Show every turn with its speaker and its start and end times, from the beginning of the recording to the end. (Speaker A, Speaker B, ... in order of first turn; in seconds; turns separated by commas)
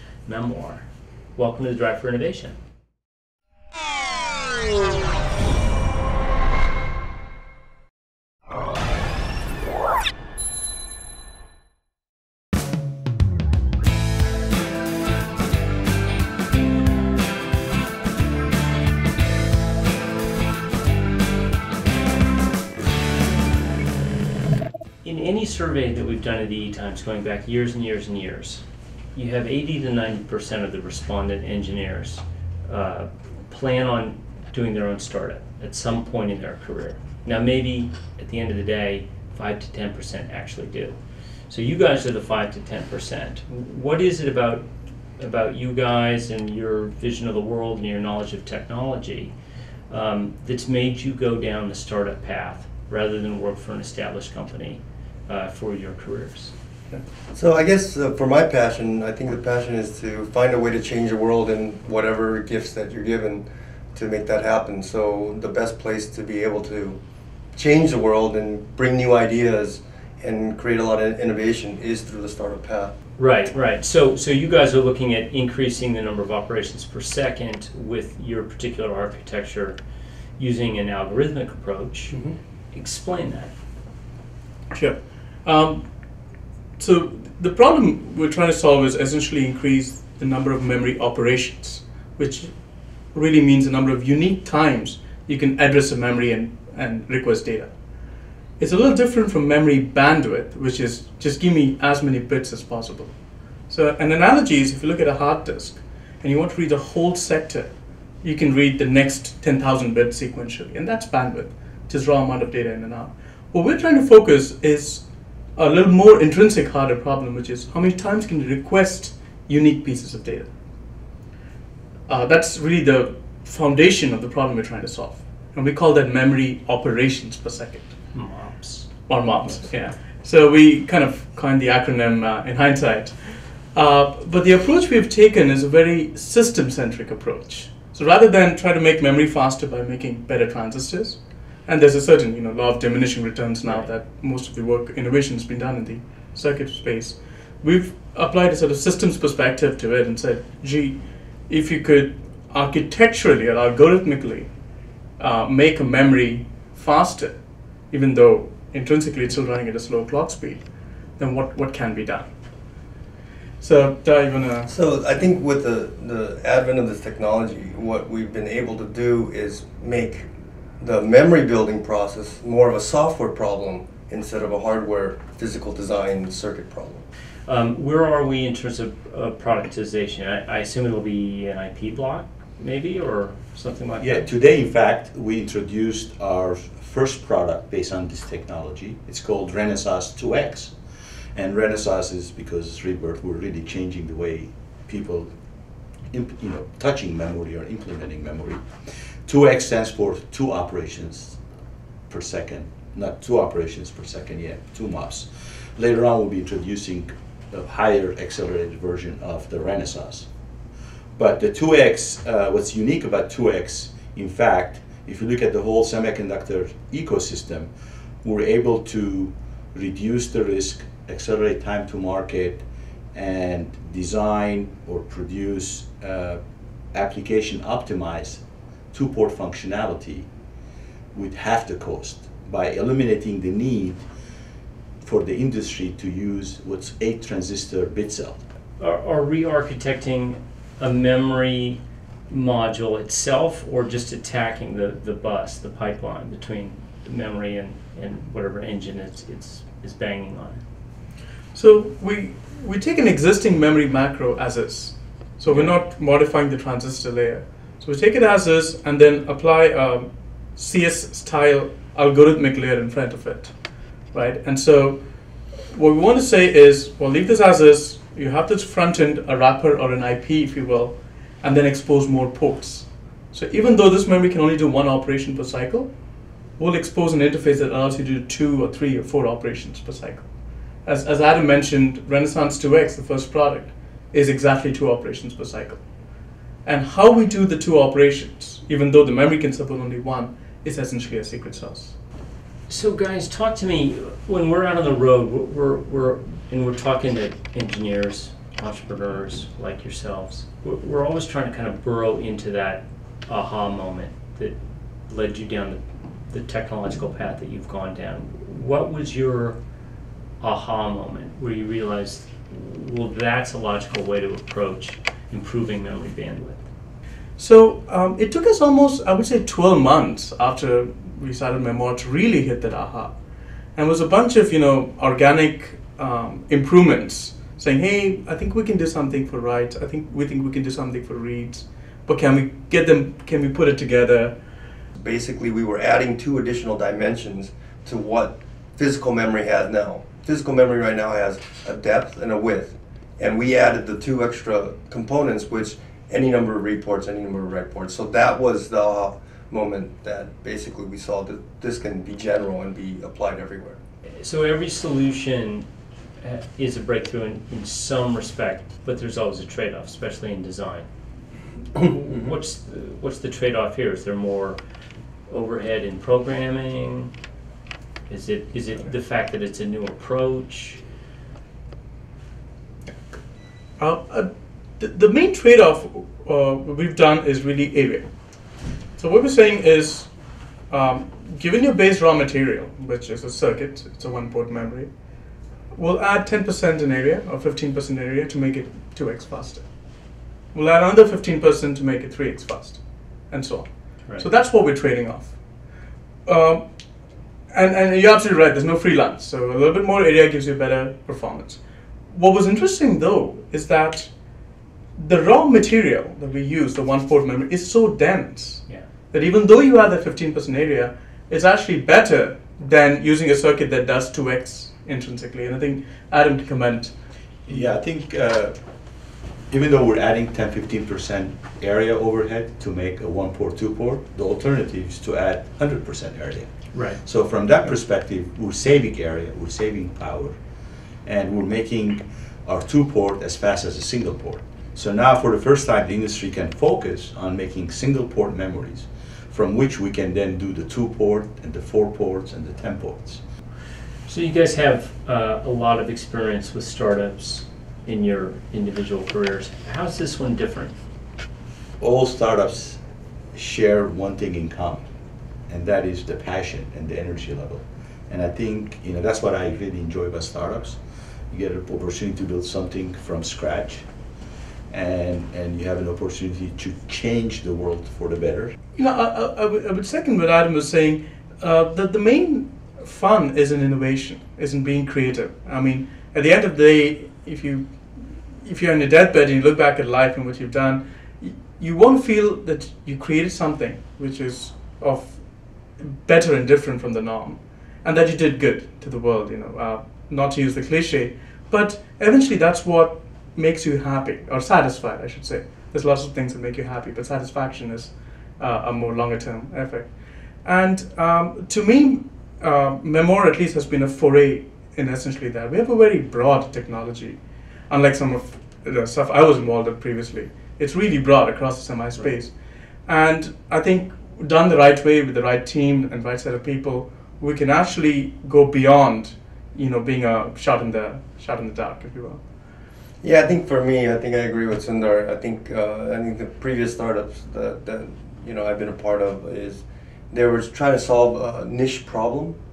Speaker A: 0.3-2.6, Speaker A: 25.0-41.0, Speaker A: 41.5-44.7, Speaker A: 45.2-49.3, Speaker A: 49.9-56.5, Speaker B: 57.3-67.0, Speaker B: 67.5-72.9, Speaker A: 73.2-79.8, Speaker A: 80.4-82.2, Speaker B: 82.1-82.4, Speaker A: 82.7-83.5, Speaker C: 84.7-85.9, Speaker C: 86.8-92.5, Speaker C: 93.1-97.7, Speaker C: 98.6-103.1, Speaker C: 103.7-115.0, Speaker C: 115.6-120.5, Speaker C: 122.1-128.2, Speaker A: 128.1-128.9, Speaker C: 129.1-154.5, Speaker A: 143.6-143.9, Speaker C: 155.2-157.4, Speaker C: 157.9-160.7, Speaker C: 161.2-162.3, Speaker C: 163.6-164.7, Speaker B: 164.7-170.3, Speaker B: 170.8-177.0, Speaker A: 177.5-184.3, Speaker D: 184.0-195.3, Speaker D: 196.1-201.4, Speaker D: 202.1-210.3, Speaker D: 211.2-230.3, Speaker D: 231.1-234.1, Speaker D: 235.0-238.4, Speaker A: 238.8-250.6, Speaker C: 251.5-263.6, Speaker A: 255.5-255.7, Speaker C: 264.1-265.0, Speaker C: 265.7-275.9, Speaker C: 276.6-280.3, Speaker C: 280.8-285.8, Speaker C: 286.6-292.0, Speaker A: 292.7-309.6, Speaker A: 310.4-316.6, Speaker C: 317.4-323.2, Speaker C: 323.8-334.4, Speaker B: 334.9-353.8, Speaker A: 354.2-355.7, Speaker A: 356.2-360.9, Speaker A: 361.8-364.6, Speaker A: 365.3-367.1, Speaker A: 368.1-370.8, Speaker C: 373.8-378.1, Speaker C: 379.0-380.1, Speaker C: 380.7-384.9, Speaker C: 385.8-389.7, Speaker C: 390.5-395.4, Speaker C: 396.2-396.6, Speaker C: 397.5-404.1, Speaker C: 405.0-416.9, Speaker D: 417.5-418.6, Speaker D: 419.5-430.4, Speaker A: 426.7-427.0, Speaker D: 431.0-443.2, Speaker A: 444.1-450.7, Speaker D: 451.8-452.8, Speaker D: 453.3-454.9, Speaker D: 455.5-463.9, Speaker D: 464.7-468.6, Speaker C: 468.8-512.4, Speaker C: 512.9-522.2, Speaker B: 523.0-532.4